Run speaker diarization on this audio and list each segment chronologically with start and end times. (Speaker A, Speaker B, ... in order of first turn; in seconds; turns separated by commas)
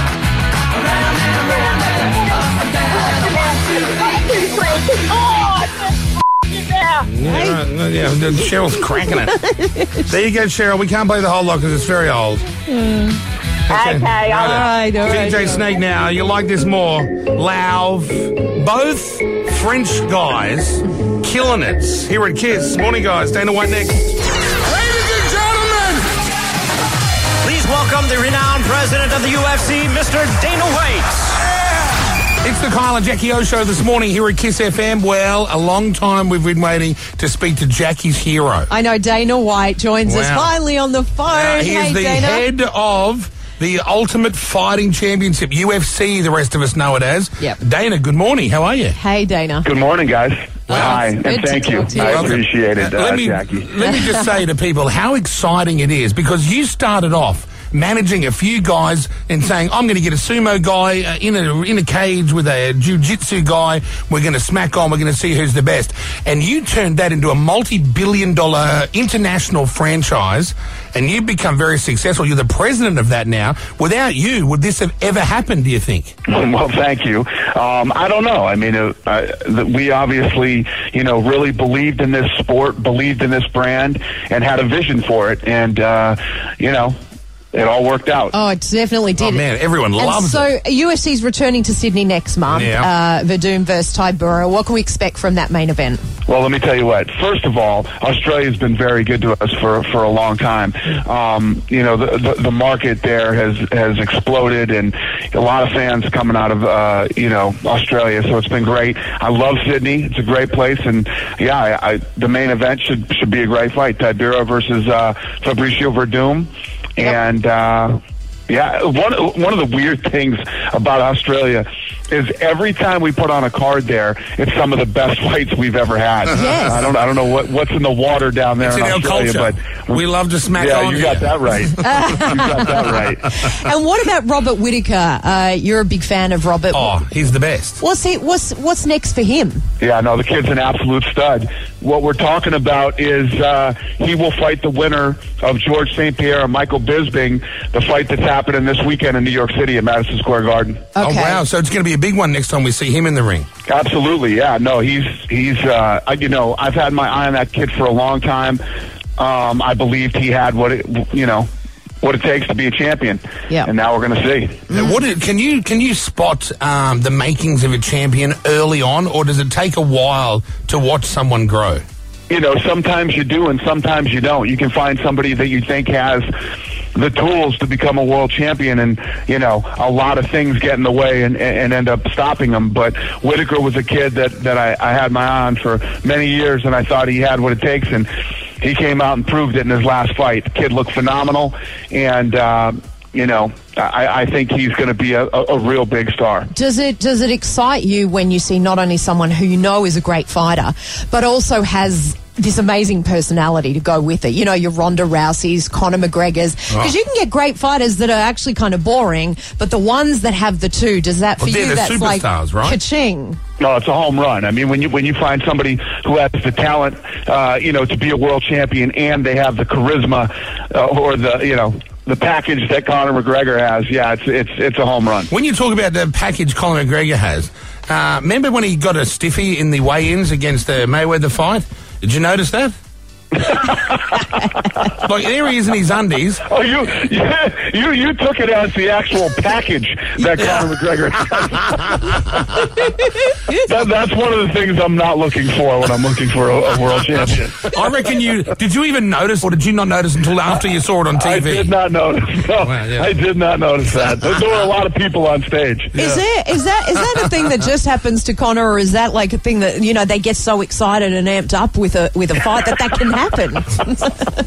Speaker A: 1.1-7.0, Speaker B: 7.0-9.3, Speaker C: 7.2-7.6, Speaker C: 8.8-10.0, Speaker B: 10.1-12.5, Speaker C: 12.7-13.2, Speaker B: 13.7-24.1, Speaker A: 13.7-14.6, Speaker C: 14.3-15.7, Speaker B: 24.6-26.1, Speaker D: 27.4-31.4, Speaker B: 32.4-38.7, Speaker C: 38.7-42.4, Speaker B: 40.0-40.5, Speaker B: 41.3-49.0, Speaker C: 48.9-49.7, Speaker E: 49.6-53.6, Speaker C: 50.7-52.4, Speaker B: 51.9-76.1, Speaker C: 53.8-54.2, Speaker E: 76.3-87.0, Speaker E: 87.5-88.3, Speaker C: 88.3-89.4, Speaker B: 89.2-90.5, Speaker C: 90.0-96.0, Speaker B: 92.5-92.9, Speaker E: 96.3-133.2, Speaker C: 126.3-126.8, Speaker B: 128.6-132.0, Speaker C: 131.8-132.9, Speaker B: 132.5-132.9, Speaker C: 133.4-136.9, Speaker B: 136.7-137.8, Speaker C: 137.8-139.6, Speaker E: 139.8-150.9, Speaker C: 150.9-151.4, Speaker B: 151.0-153.5, Speaker E: 153.7-158.6, Speaker E: 159.2-161.5, Speaker E: 162.0-164.7, Speaker C: 164.7-165.0, Speaker B: 164.7-171.8, Speaker E: 172.3-176.3, Speaker E: 176.9-196.5, Speaker C: 196.5-213.4, Speaker B: 211.4-212.8, Speaker E: 213.6-225.3, Speaker B: 225.3-232.8, Speaker B: 235.0-236.4, Speaker E: 236.4-241.6, Speaker E: 243.7-247.8, Speaker B: 247.2-251.7, Speaker E: 251.1-255.9, Speaker B: 252.6-253.1, Speaker B: 255.9-256.2, Speaker C: 255.9-264.1